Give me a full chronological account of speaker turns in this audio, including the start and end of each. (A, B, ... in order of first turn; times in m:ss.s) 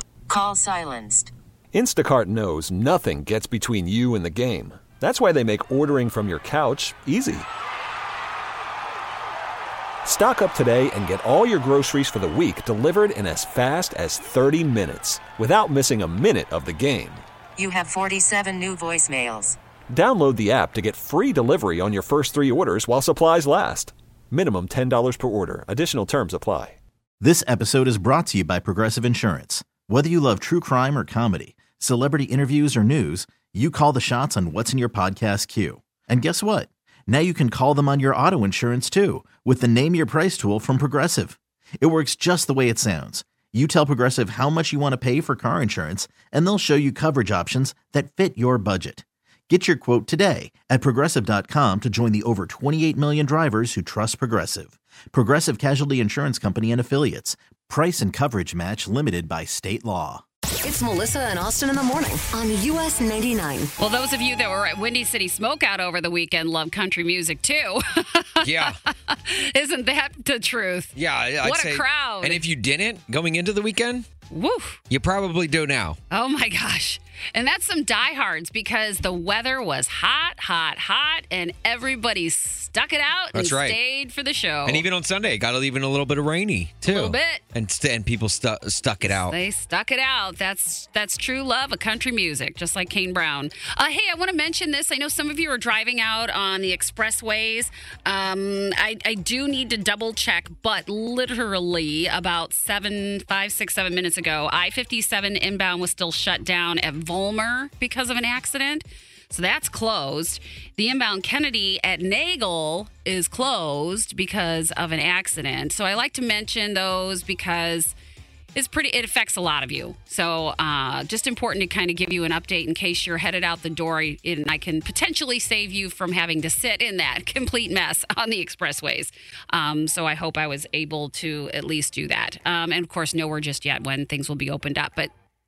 0:00.3-0:01.3 A
0:01.7-0:07.5 B
0:10.0-0:17.2 B
0:17.6-0:19.6 A
0:19.9-0:26.8 B
0:27.2-1:00.2 C
1:00.6-1:03.7 D
1:03.8-1:12.4 E
1:08.4-1:08.8 F
1:11.0-1:14.1 F
1:14.3-1:14.8 E
1:14.9-1:16.0 F
1:16.1-1:24.8 E
1:23.3-1:23.8 F
1:24.7-1:29.4 F
1:26.8-1:27.4 E
1:29.0-1:57.9 E
1:58.6-2:15.1 E